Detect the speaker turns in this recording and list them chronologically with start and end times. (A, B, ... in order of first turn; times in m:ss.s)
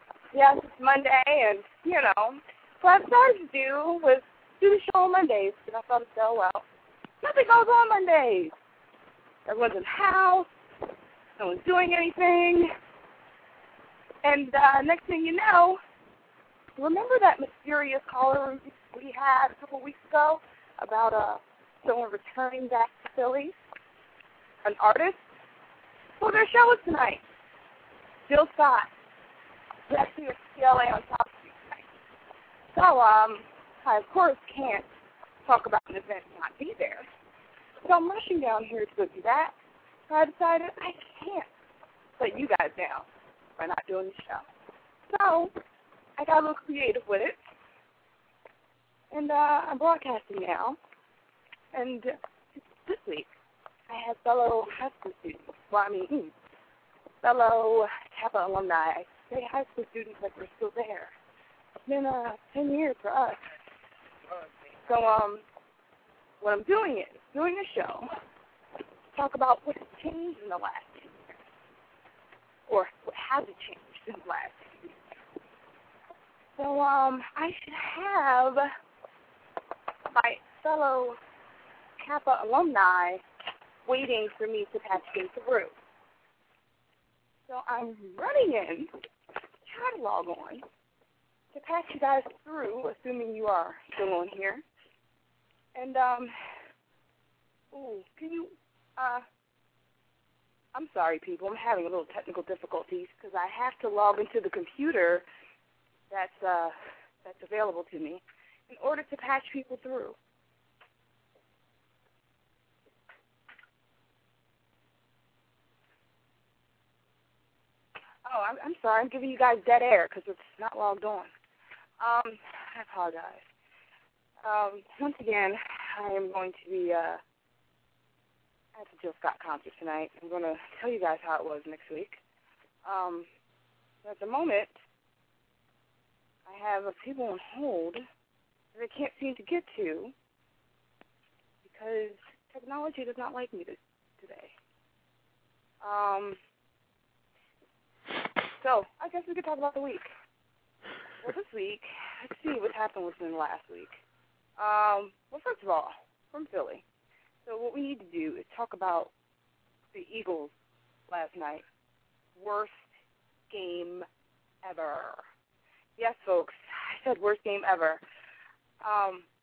0:00.3-0:06.6 A
0:07.2-0:08.5 A
0:09.5-0:10.5 A
0:11.4-0:12.7 A
0:14.2-0:15.8 A
0:16.8-0:23.5 A
0:24.6-0:25.2 A
0:26.2-0:27.2 A
0:28.3-0:28.9 A
0:29.9-0:31.8 A
0:32.7-0:34.9 A
0:35.4-0:37.1 A
0:37.8-0:39.5 A
0:40.1-0:41.5 A
0:42.2-0:43.1 A
0:43.6-0:44.4 A
0:45.1-0:45.5 A
0:46.2-0:47.4 A
0:49.1-0:50.8 A
0:51.7-0:52.1 A
0:52.8-0:53.3 A
0:53.9-0:56.3 A
0:57.2-1:01.1 A
1:01.9-1:03.4 A
1:04.8-1:05.4 A
1:06.4-1:08.1 A
1:09.1-1:11.1 A
1:12.7-1:14.7 A
1:16.6-1:18.6 A
1:20.1-1:21.2 A
1:22.0-1:23.2 A
1:23.9-1:25.8 A
1:27.5-1:28.9 A
1:29.7-1:30.6 A
1:31.5-1:34.6 A
1:35.8-1:36.3 A
1:37.7-1:39.2 A
1:40.7-1:45.2 A
1:46.1-1:50.2 A
1:58.2-2:01.3 A
2:02.0-2:03.4 A
2:04.4-2:07.2 A
2:08.8-2:12.2 A
2:12.8-2:13.3 A
2:14.0-2:14.8 A
2:16.5-2:18.0 A
2:18.8-2:20.1 A
2:21.6-2:24.5 A
2:25.8-2:26.4 A
2:28.6-2:30.1 A
2:31.2-2:33.9 A
2:34.6-2:36.8 A
2:37.5-2:39.1 A
2:39.9-2:40.5 A
2:41.1-2:41.6 A
2:42.4-2:42.8 A
2:43.5-2:44.1 A
2:44.6-2:45.2 A
2:46.0-2:48.0 A
2:48.8-2:49.3 A